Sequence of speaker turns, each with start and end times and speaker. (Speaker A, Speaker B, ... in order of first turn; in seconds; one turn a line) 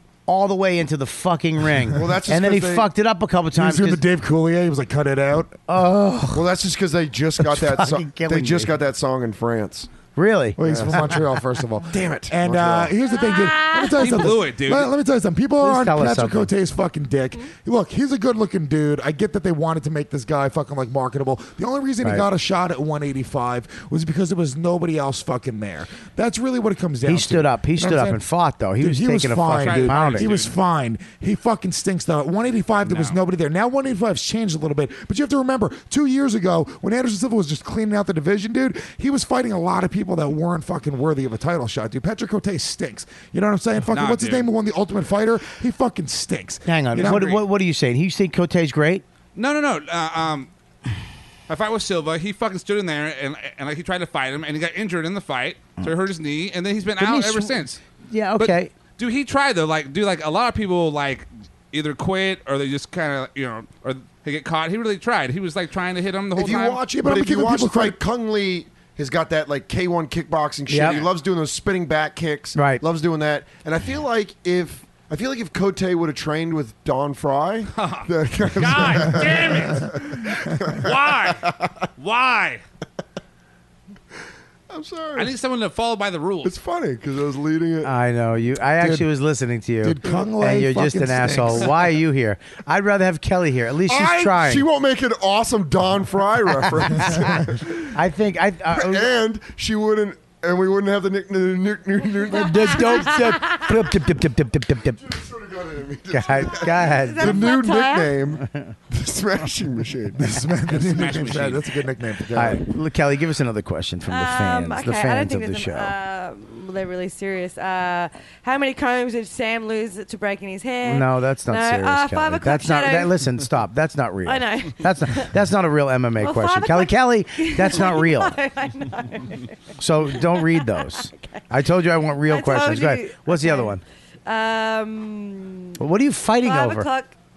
Speaker A: 0.3-4.0
Speaker B: 1.9-2.9
Speaker C: 3.5-5.6
Speaker A: 5.7-6.5
Speaker B: 6.3-9.9
Speaker A: 7.4-8.7
Speaker A: 10.2-11.0
Speaker C: 10.6-28.2
Speaker B: 10.6-11.2
Speaker B: 11.9-12.9
Speaker D: 13.1-14.0
Speaker E: 13.9-14.9
Speaker A: 15.6-16.5
Speaker A: 27.1-30.3
Speaker C: 28.8-47.4
Speaker E: 29.6-30.5
Speaker E: 32.8-33.2
Speaker E: 43.9-44.5
Speaker A: 46.6-49.0
Speaker E: 49.4-50.5
Speaker E: 51.5-57.8
Speaker A: 57.0-58.7
Speaker E: 58.4-66.8
Speaker B: 66.3-81.7
Speaker C: 67.0-68.0
Speaker A: 70.7-71.0
Speaker E: 70.8-71.1
Speaker A: 72.5-72.8
Speaker E: 77.7-81.5
Speaker E: 82.0-82.6
Speaker B: 84.7-85.3
Speaker E: 85.2-86.5
Speaker B: 86.4-87.9
Speaker A: 87.8-94.7
Speaker C: 88.8-89.1
Speaker C: 89.8-91.9
Speaker B: 93.8-97.9
Speaker A: 97.0-97.3
Speaker A: 97.9-99.1
Speaker B: 98.7-103.2
Speaker A: 102.3-105.0
Speaker D: 102.9-103.7
Speaker B: 105.0-110.4
Speaker A: 106.1-107.5
Speaker D: 106.9-108.2
Speaker A: 108.4-108.7
Speaker C: 110.1-112.7
Speaker E: 110.7-111.7
Speaker A: 112.3-115.9
Speaker D: 114.1-123.2
Speaker A: 120.8-128.4
Speaker D: 124.2-125.4
Speaker D: 126.2-131.4
Speaker A: 129.8-133.8
Speaker D: 132.2-135.8
Speaker A: 135.8-136.9
Speaker D: 136.4-137.1